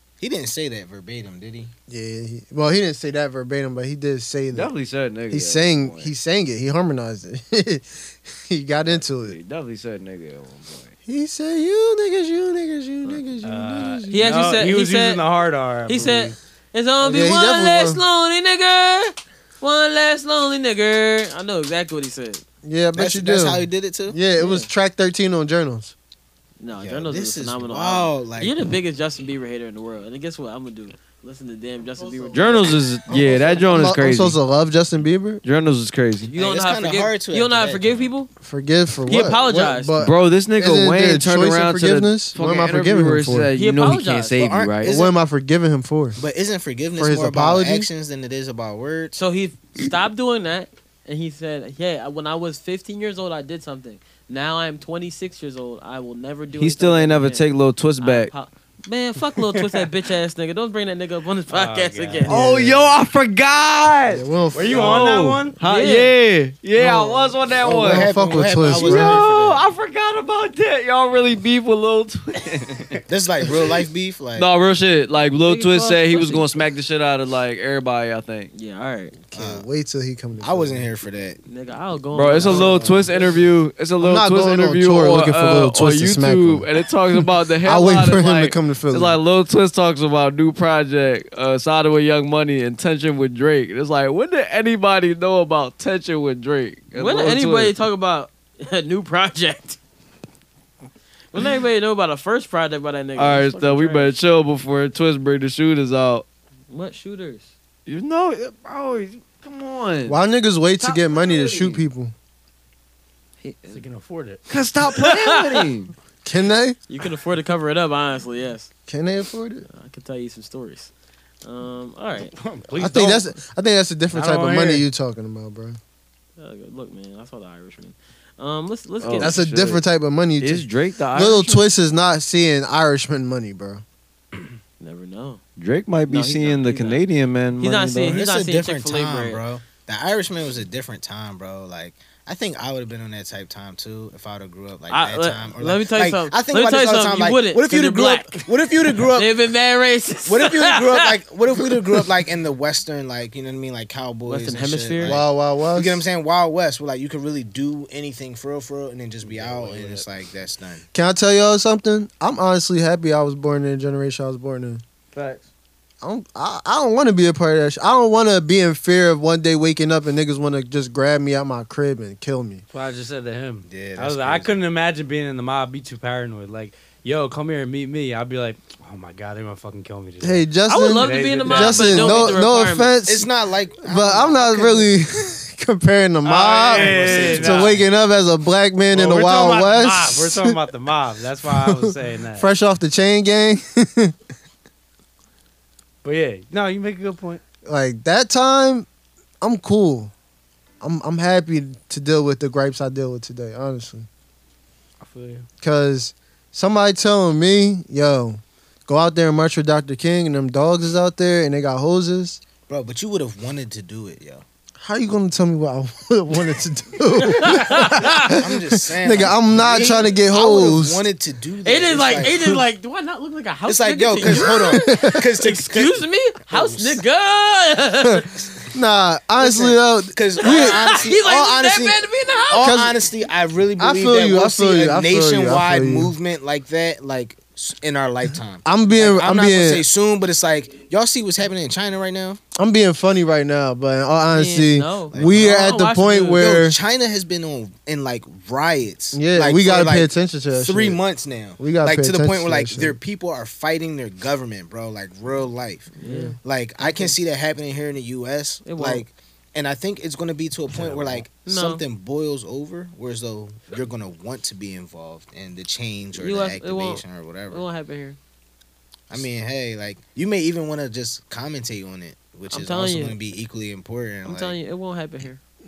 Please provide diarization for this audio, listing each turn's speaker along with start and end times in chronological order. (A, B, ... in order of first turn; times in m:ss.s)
0:00.2-0:01.7 A
0:01.9-0:04.7 B
0:04.5-0:06.1 C
0:05.3-0:09.4 B
0:08.8-0:11.0 C
0:11.1-0:14.4 B
0:13.4-0:16.4 D
0:14.1-0:15.2 E
0:15.9-0:22.4 E
0:17.0-0:18.0 B
0:22.6-0:25.9 B
0:23.0-0:24.2 A
0:24.4-0:24.7 E
0:26.6-0:32.7 E
0:26.8-0:28.6 A
0:32.0-0:35.4 B
0:32.3-0:34.4 C
0:35.4-0:36.3 C
0:36.3-0:38.1 A
0:36.3-0:38.3 E
0:38.4-0:43.5 B
0:39.1-0:40.0 E
0:40.0-0:44.9 C
0:43.6-0:44.4 E
0:44.4-0:45.2 A
0:44.8-0:46.2 B
0:46.2-0:49.2 A
0:47.0-0:47.9 B
0:49.1-0:57.5 E
0:56.6-0:58.3 C
0:58.0-1:02.3 E
1:01.5-1:02.3 D
1:02.3-1:02.9 B
1:02.3-1:13.0 C
1:04.1-1:05.2 B
1:04.5-1:05.6 D
1:05.6-1:06.1 E
1:06.8-1:09.2 B
1:07.6-1:09.6 A
1:13.1-1:14.5 A
1:14.4-1:18.5 C
1:15.4-1:16.5 E
1:18.5-1:19.2 E
1:19.3-1:20.9 B
1:19.3-1:19.7 A
1:20.4-1:21.4 A
1:21.5-1:23.2 E
1:22.1-1:37.8 C
1:22.4-1:23.1 B
1:24.0-1:26.7 B
1:27.6-1:29.2 B
1:36.9-1:39.8 E
1:41.3-1:44.1 E
1:43.2-1:46.3 C
1:46.7-1:47.5 E
1:47.9-1:50.2 C
1:50.1-1:52.1 B
1:50.8-1:51.8 C
1:53.4-1:53.8 C
1:53.7-1:54.4 D
1:54.5-1:55.9 C
1:56.2-1:56.8 B
1:56.9-1:58.7 E
1:58.9-1:59.7 B
1:59.7-2:00.9 E
2:01.4-2:02.3 E
2:02.4-2:03.3 D
2:02.8-2:05.8 B
2:04.1-2:04.8 D
2:06.4-2:09.4 E
2:09.0-2:09.8 C
2:09.2-2:13.8 B
2:10.4-2:11.6 C
2:14.8-2:15.4 E
2:15.6-2:18.2 C
2:16.1-2:17.0 E
2:17.6-2:19.4 E
2:18.0-2:29.4 A
2:24.9-2:28.5 E
2:29.1-2:31.1 E
2:30.3-2:40.8 A
2:34.3-2:35.2 E
2:35.0-2:36.0 B
2:39.4-2:40.0 C
2:40.9-2:44.8 B
2:45.1-2:45.4 C
2:46.0-2:52.6 B
2:52.7-3:02.3 D
2:53.6-2:54.6 A
3:00.2-3:10.6 B
3:00.7-3:02.9 E
3:03.0-3:04.9 A
3:06.2-3:07.8 D
3:06.6-3:07.9 A
3:08.9-3:12.5 D
3:11.5-3:14.2 B
3:16.0-3:17.4 D
3:17.6-3:18.9 B
3:19.4-3:20.1 B
3:20.8-3:24.1 B
3:25.0-3:25.5 D
3:25.6-3:32.4 B
3:32.7-3:34.4 A
3:34.8-3:41.1 B
3:37.2-3:38.3 E
3:38.2-3:42.6 A
3:41.6-3:48.3 E
3:43.7-3:47.0 A
3:44.3-3:45.2 B
3:48.2-3:50.7 B
3:49.4-4:02.4 A
3:50.4-3:52.8 E
3:52.6-3:53.0 B
3:53.8-3:56.1 B
3:58.6-3:59.9 B
4:02.6-4:06.8 B
4:04.3-4:06.4 E
4:05.1-4:05.5 A
4:06.4-4:27.7 A
4:09.1-4:11.0 B
4:11.6-4:13.0 B
4:16.0-4:17.1 E
4:16.0-4:16.4 B
4:18.6-4:19.0 E
4:20.9-4:21.2 B
4:21.4-4:21.8 E
4:26.2-4:28.2 E
4:29.1-4:34.6 A
4:32.5-4:33.2 E
4:34.2-4:35.4 E